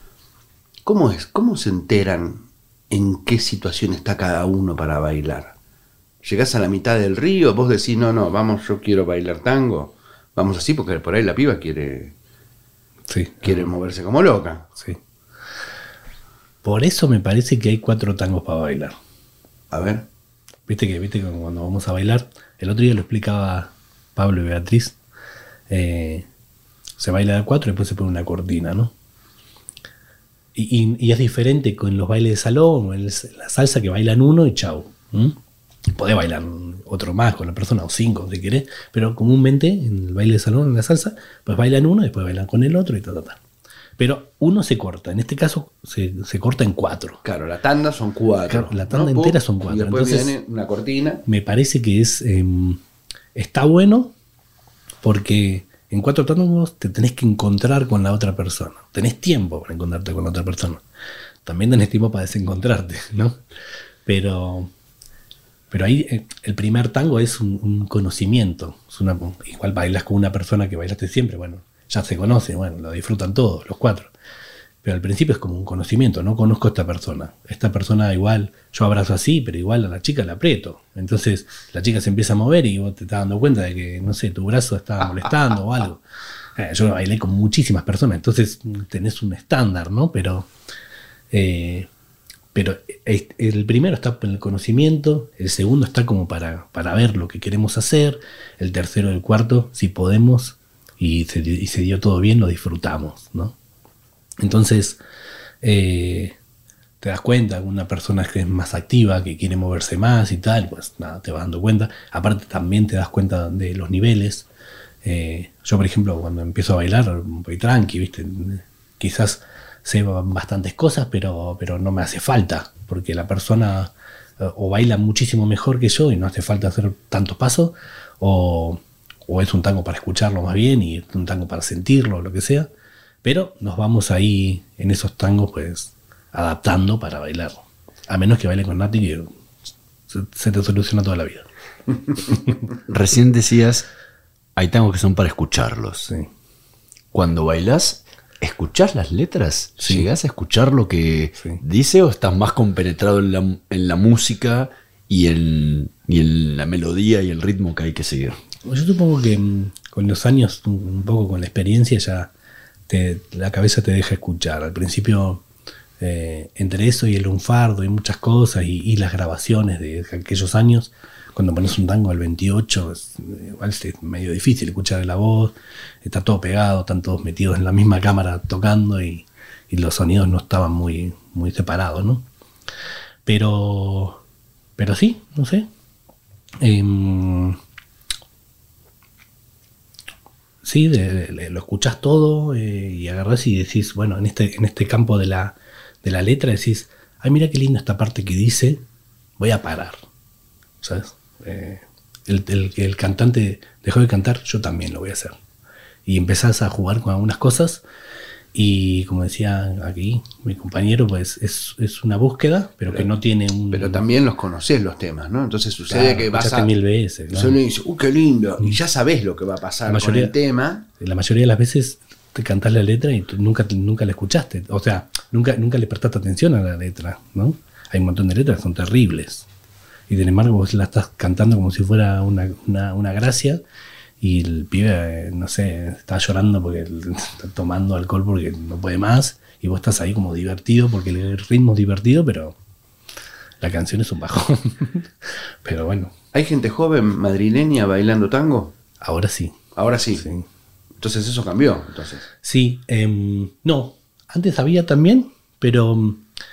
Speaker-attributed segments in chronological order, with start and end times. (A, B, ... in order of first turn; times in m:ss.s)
0:00.8-0:05.5 A
0:06.2-0:12.1 A
0:13.1-0:13.6 B
0:13.4-0:14.7 A
0:16.6-0:19.0 B
0:19.7-0:20.0 A
0:20.7-0:25.0 B
0:25.7-0:26.3 B
0:27.0-0:28.9 B
0:30.5-0:35.4 B
0:35.9-0:43.4 B
0:44.0-0:47.2 B
0:47.2-0:51.2 A
0:48.5-0:50.3 B
0:51.2-0:52.8 B
0:53.3-0:54.1 B
0:55.0-1:00.8 B
1:01.4-1:03.4 B
1:04.0-1:04.7 B
1:05.7-1:14.1 B
1:14.8-1:26.0 B
1:26.6-1:30.5 B
1:31.3-1:31.9 B
1:32.5-1:43.6 B
1:44.4-1:45.0 B
1:45.6-1:46.4 B
1:47.0-1:54.5 B
1:55.0-2:12.7 B
2:13.2-2:19.3 B
2:20.1-2:21.4 B
2:22.9-2:23.9 C
2:24.6-2:26.1 C
2:27.1-2:38.4 C
2:29.8-2:30.1 B
2:38.6-2:42.3 B
2:42.9-2:45.4 B
2:46.0-3:02.2 B
3:03.2-3:04.2 B
3:04.8-3:05.7 B
3:06.6-3:07.6 B
3:10.6-3:18.8 B
3:19.4-3:20.0 B
3:20.8-3:25.4 B
3:26.0-3:27.8 B
3:28.5-3:34.0 B
3:33.7-3:36.7 A
3:35.9-3:37.6 B
3:37.3-3:40.8 A
3:39.8-3:40.3 B
3:41.0-3:49.5 B
3:50.1-3:53.6 B
3:54.2-4:02.6 B
4:03.6-4:06.1 B
4:06.3-4:08.7 A
4:09.0-4:09.6 B
4:09.8-4:10.2 A
4:10.2-4:10.4 B
4:11.0-4:12.3 A
4:12.4-4:16.2 B